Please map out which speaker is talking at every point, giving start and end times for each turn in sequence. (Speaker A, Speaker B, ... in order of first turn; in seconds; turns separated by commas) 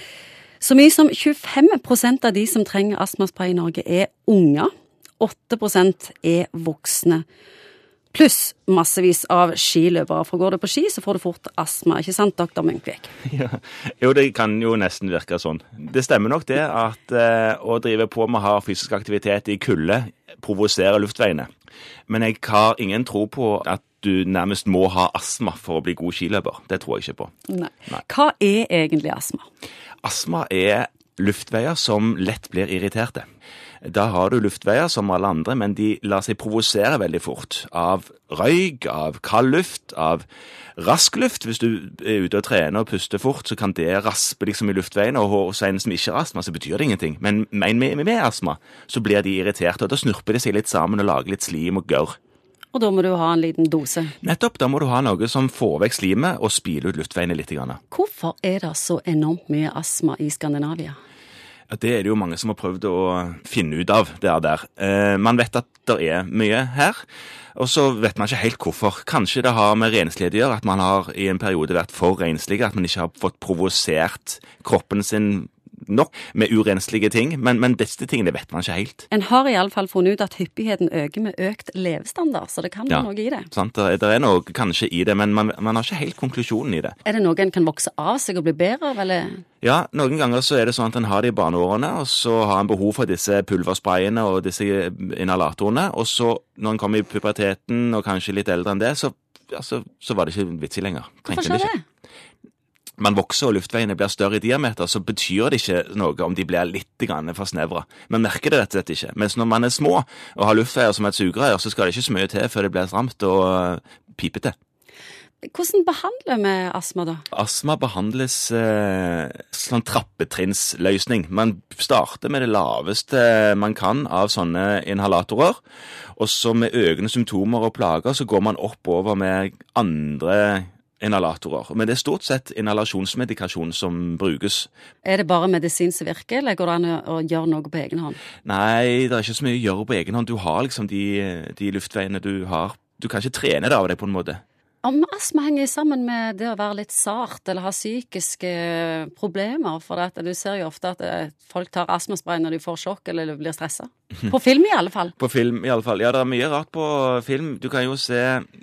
Speaker A: 0.6-7.2, Speaker A: 8.1-13.1, Speaker B: 13.3-21.5, Speaker B: 22.1-27.3, Speaker A: 27.5-29.5, Speaker B: 30.0-33.2, Speaker B: 33.8-40.2, Speaker B: 40.8-52.2, Speaker A: 52.7-54.1, Speaker B: 54.2-57.8, Speaker A: 57.9-61.0, Speaker B: 61.7-67.0, Speaker B: 67.5-79.0, Speaker A: 79.1-83.5, Speaker B: 82.9-87.0, Speaker A: 87.0-89.4, Speaker B: 89.6-101.7, Speaker A: 101.3-101.8, Speaker B: 103.0-114.5, Speaker A: 115.4-117.2, Speaker B: 117.3-125.6, Speaker B: 126.2-134.7, Speaker A: 135.0-138.2, Speaker B: 138.4-144.4, Speaker A: 144.8-155.2, Speaker B: 155.2-158.5